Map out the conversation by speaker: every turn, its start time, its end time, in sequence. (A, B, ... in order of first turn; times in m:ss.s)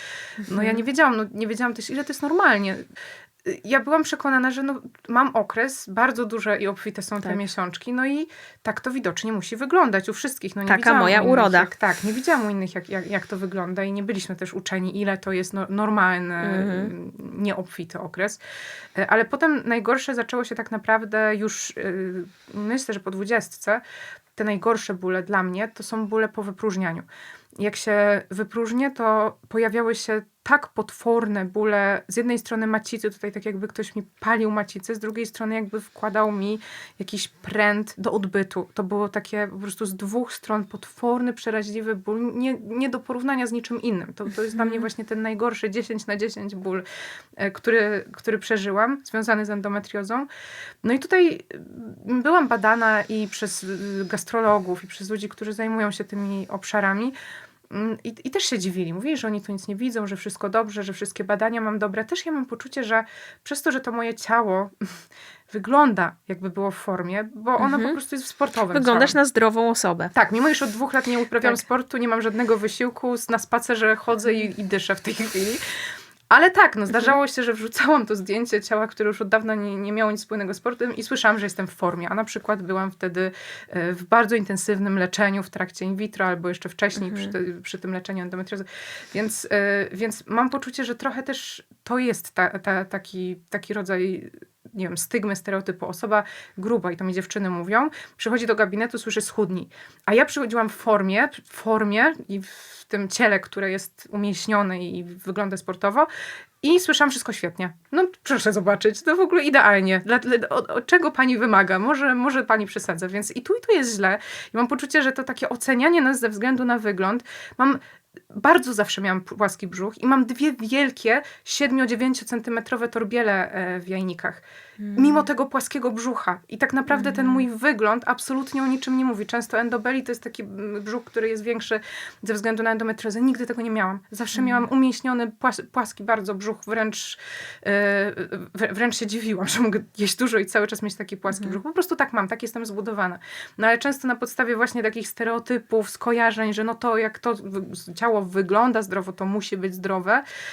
0:00.4-0:00.8 A
0:00.4-0:02.8 B
0:03.4-0:18.4 B
0:10.7-0:11.7 A
0:16.4-0:16.9 A
0:19.0-0:23.8 B
0:24.4-0:27.0 B
0:27.6-0:46.8 B
0:44.5-0:44.8 A
0:47.4-0:50.3 B
0:50.8-0:57.1 B
0:57.7-1:04.9 B
1:05.5-1:09.2 B
1:07.6-1:08.0 A
1:08.7-1:10.1 A
1:10.1-1:15.6 B
1:16.3-1:46.1 B
1:27.0-1:27.3 A
1:46.6-1:57.8 B
1:58.3-2:04.4 B
2:04.8-2:05.2 A
2:04.9-2:30.2 B
2:06.9-2:07.4 A
2:14.3-2:14.6 A
2:21.3-2:21.6 A